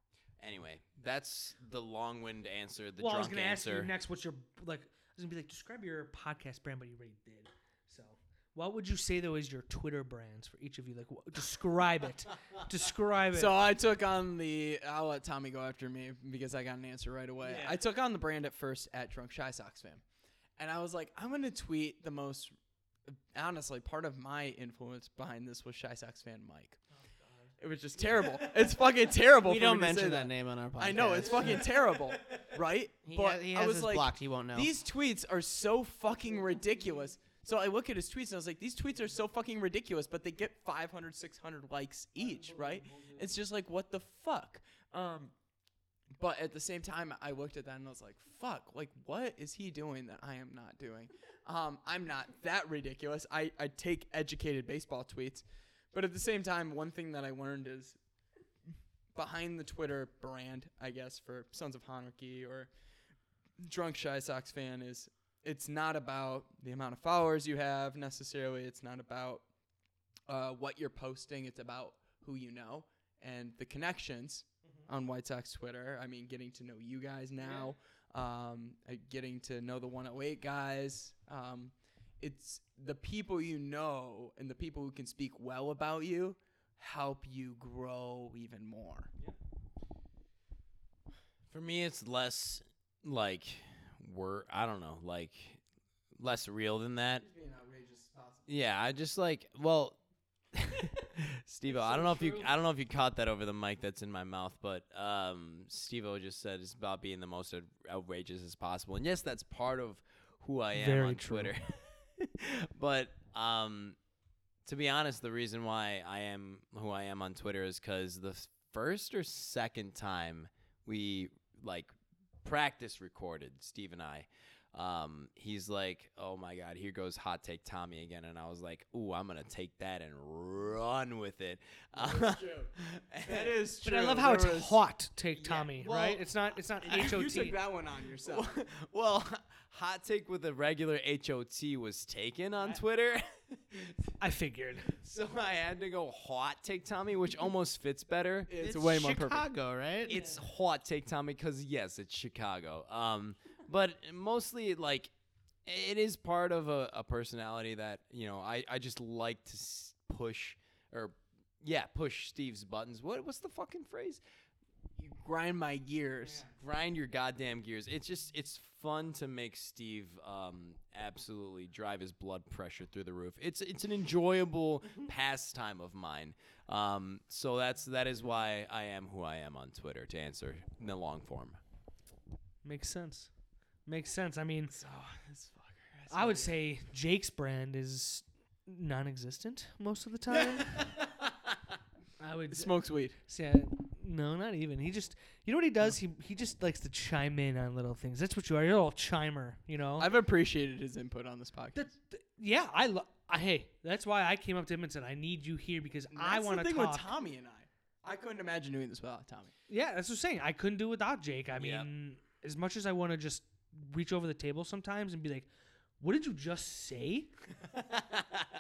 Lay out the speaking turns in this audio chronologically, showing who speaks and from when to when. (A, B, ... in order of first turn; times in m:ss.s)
0:00.4-0:03.9 A
0:03.0-0:13.6 B
0:13.3-0:20.0 C
0:20.6-0:22.5 C
0:23.1-0:26.8 C
0:27.6-0:45.3 C
0:29.4-0:31.7 D
0:33.1-0:34.7 D
0:46.2-0:58.0 C
0:59.1-1:02.7 C
1:03.6-1:09.4 C
1:10.3-1:29.1 C
1:31.5-1:35.6 A
1:36.2-1:37.2 A
1:37.2-1:38.5 C
1:38.5-1:40.0 A
1:40.5-1:54.0 A
1:41.7-1:42.5 C
1:50.7-1:51.5 B
1:54.6-2:01.9 A
2:02.4-2:13.6 A
2:11.9-2:12.7 C
2:13.2-2:14.8 C
2:13.8-2:17.6 B
2:15.4-2:16.2 A
2:16.8-2:18.5 C
2:18.2-2:24.1 A
2:24.2-2:24.9 B
2:24.9-2:28.5 A
2:28.5-2:29.5 C
2:28.6-2:30.1 D
2:30.1-2:35.1 A
2:30.1-2:30.4 B
2:35.7-2:44.2 A
2:45.0-2:46.5 C
2:46.6-3:01.6 A
3:02.6-3:03.3 B
3:03.9-3:04.8 B
3:04.7-3:06.5 C
3:06.1-3:10.8 B
3:10.6-3:11.3 A
3:12.2-3:20.1 B
3:12.5-3:13.2 C
3:20.0-3:21.9 C
3:21.8-3:27.1 B
3:26.1-3:29.5 C
3:29.7-3:35.5 B
3:31.6-3:31.9 A
3:36.0-3:37.3 B
3:37.8-3:38.5 A